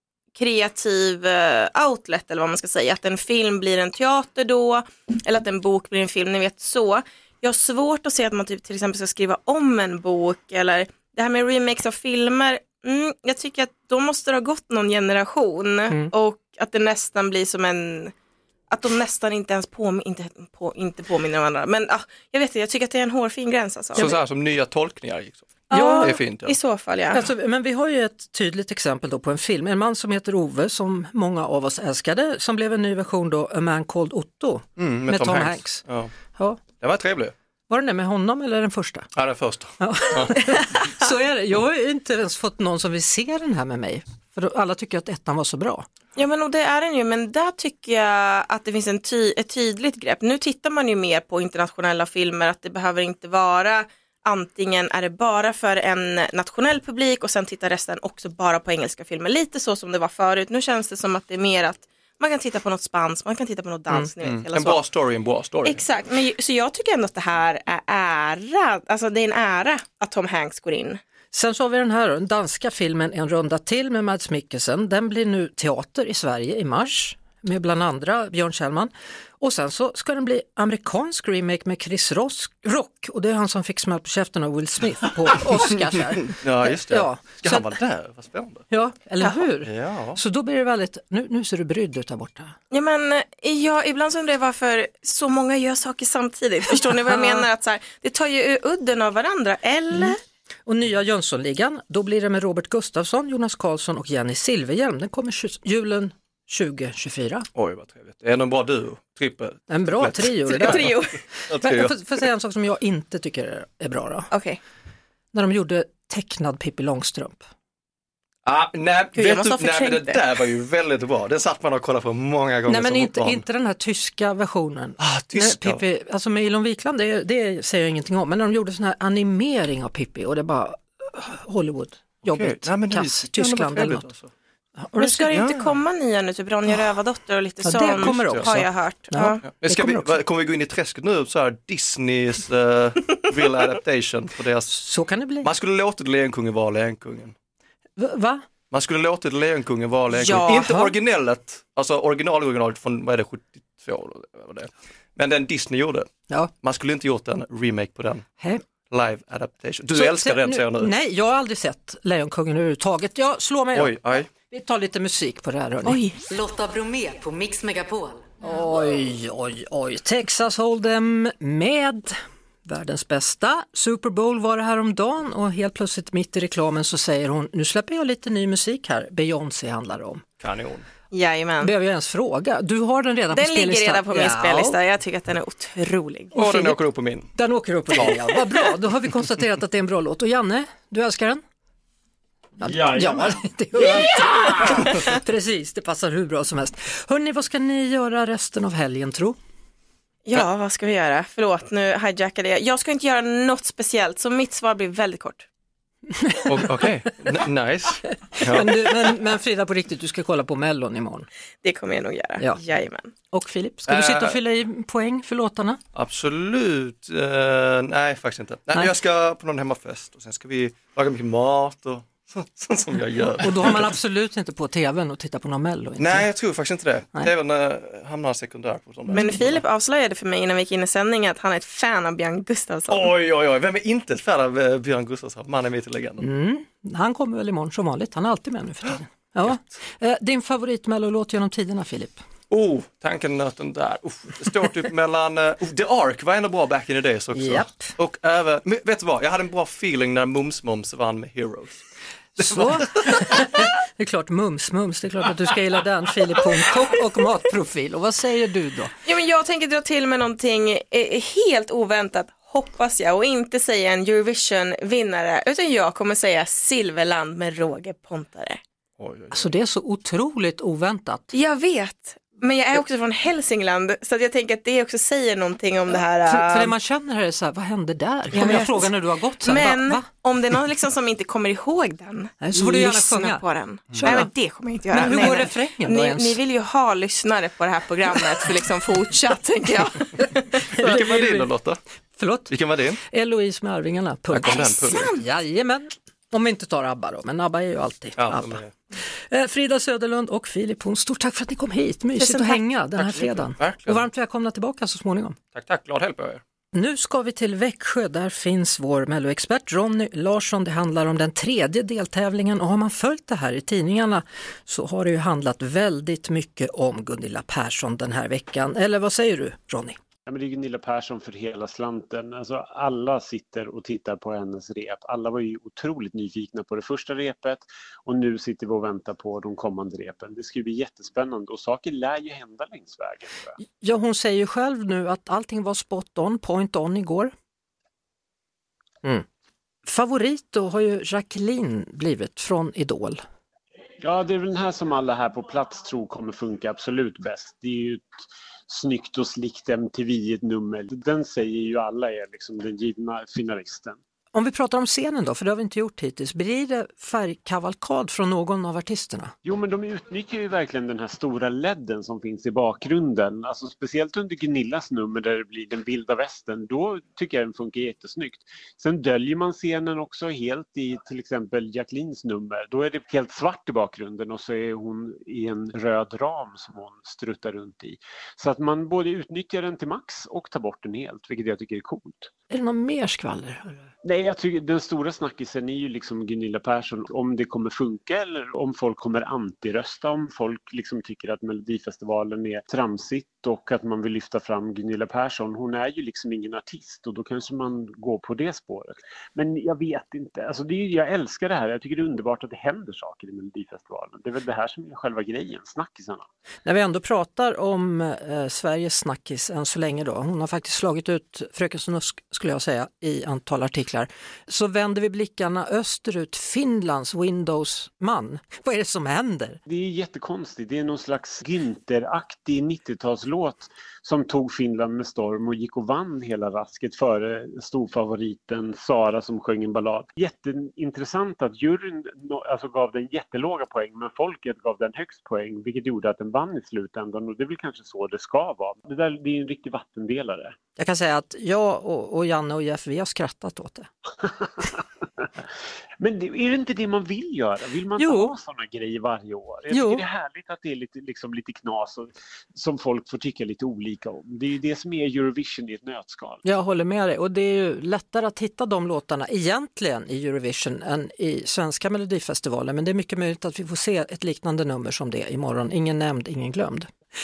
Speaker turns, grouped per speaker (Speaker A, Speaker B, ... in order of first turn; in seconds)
Speaker A: 0.3-18.1, 18.7-24.1, 25.7-27.2, 46.1-64.8, 65.6-71.0, 92.7-100.2, 110.5-111.2, 114.3-114.6, 119.1-120.2, 135.0-139.4, 150.1-150.7, 165.8-166.2, 181.1-181.7, 183.3-186.3, 200.2-205.5, 211.6-213.1, 229.1-233.1, 259.0-268.6, 271.3-276.7, 278.3-290.6, 294.5-295.2, 302.2-302.6
Speaker B: 23.9-26.6, 34.8-36.1, 36.8-37.3, 39.1-40.4, 64.2-65.8, 86.1-88.7, 89.6-90.2, 107.5-112.0, 118.4-123.4, 125.0-125.8, 132.2-134.3, 135.3-135.7, 138.0-138.5, 139.4-144.8, 145.4-147.3, 148.7-156.1, 156.6-158.2, 158.9-160.9, 163.7-164.3, 180.4-180.8, 186.3-187.3, 206.4-209.1, 213.9-214.4, 215.9-223.9, 226.0-229.6, 232.9-236.2, 242.5-251.8, 252.4-253.6, 269.0-269.5, 283.9-284.2, 290.8-291.8, 292.5-293.0, 294.3-295.1, 298.2-298.7, 302.9-304.1, 305.5-306.4
Speaker C: 25.7-26.1, 27.1-35.8, 36.3-36.6, 37.7-39.1, 39.8-45.9, 71.3-87.8, 88.7-92.5, 97.0-97.4, 100.7-107.5, 109.7-114.3, 115.3-117.4, 122.7-134.1, 134.8-135.3, 137.6-140.2, 144.7-145.5, 148.0-148.4, 150.6-150.9, 158.4-158.6, 159.9-166.0, 168.4-180.2, 181.6-184.8, 186.3-186.8, 187.3-191.4, 192.6-199.4, 206.1-206.8, 208.3-211.3, 213.3-215.8, 223.4-226.3, 229.1-229.4, 236.2-242.2, 247.3-247.9, 252.4-258.9, 269.3-271.3, 276.2-280.1, 282.4-283.4, 283.9-284.3, 284.9-286.4, 290.7-291.5, 292.2-298.6, 299.3-305.4, 306.7-320.0, 333.8-337.3, 339.8-343.2, 354.3-359.3, 382.5-383.9, 406.6-419.6, 440.8-443.9, 447.9-448.3, 449.7-450.0, 456.4-466.9
Speaker D: 166.3-168.3
Speaker E: 320.3-333.5, 344.0-348.1, 348.7-354.0, 359.4-382.3, 384.0-406.2, 419.7-440.5, 444.6-445.3, 446.0-456.4